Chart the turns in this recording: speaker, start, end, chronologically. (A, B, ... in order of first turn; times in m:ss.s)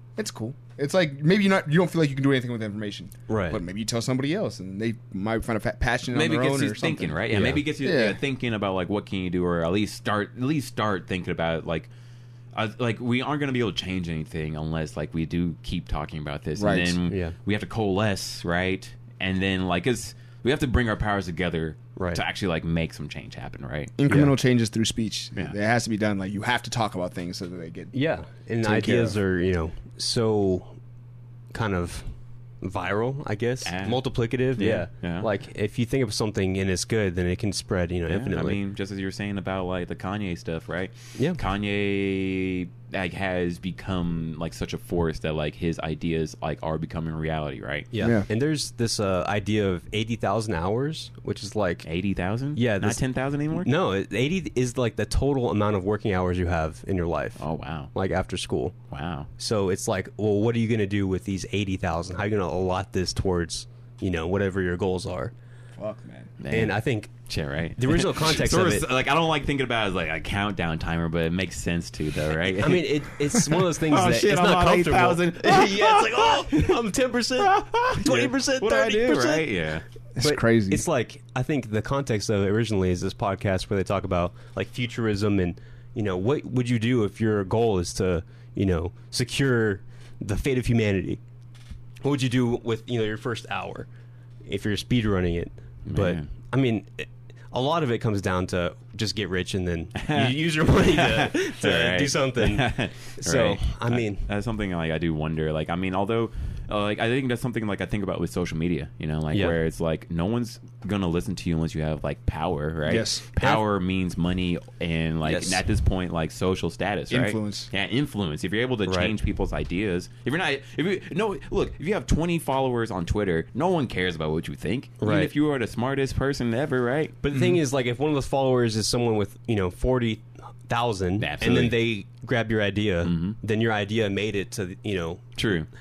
0:00.2-0:07.2 A
0:03.3-0:03.6 B
0:06.1-0:11.9 C
0:07.3-0:07.6 B
0:07.8-0:08.2 A
0:12.5-0:23.9 C
0:16.6-0:17.0 A
0:17.1-0:17.4 B
0:22.0-0:22.2 B
0:24.0-0:27.9 A
0:24.1-0:24.3 B
0:27.9-0:30.8 B
0:28.6-0:29.2 A
0:31.5-0:32.1 B
0:32.6-0:38.6 B
0:33.6-0:34.0 C
0:34.6-0:35.3 C
0:38.1-0:47.9 C
0:47.9-0:51.9 B
0:48.0-0:48.3 A
0:51.8-0:53.7 C
0:52.6-0:53.0 B
0:53.6-0:58.8 B
0:57.4-0:57.9 C
0:58.9-0:59.3 C
0:59.4-1:05.3 B
1:05.8-1:06.3 A
1:06.4-1:16.8 C
1:06.5-1:07.1 B
1:07.8-1:08.9 B
1:12.6-1:19.5 B
1:17.4-1:19.8 C
1:20.2-1:20.8 A
1:20.2-1:31.2 B
1:32.0-1:33.9 B
1:34.4-1:44.3 B
1:35.9-1:36.3 C
1:40.0-2:07.6 C
1:52.9-1:53.3 A
1:55.2-1:55.6 B
1:57.1-1:57.7 A
1:58.9-1:59.1 B
2:05.0-2:05.3 B
2:07.2-2:15.2 B
2:11.2-2:11.8 C
2:13.0-2:13.4 C
2:15.4-2:15.7 C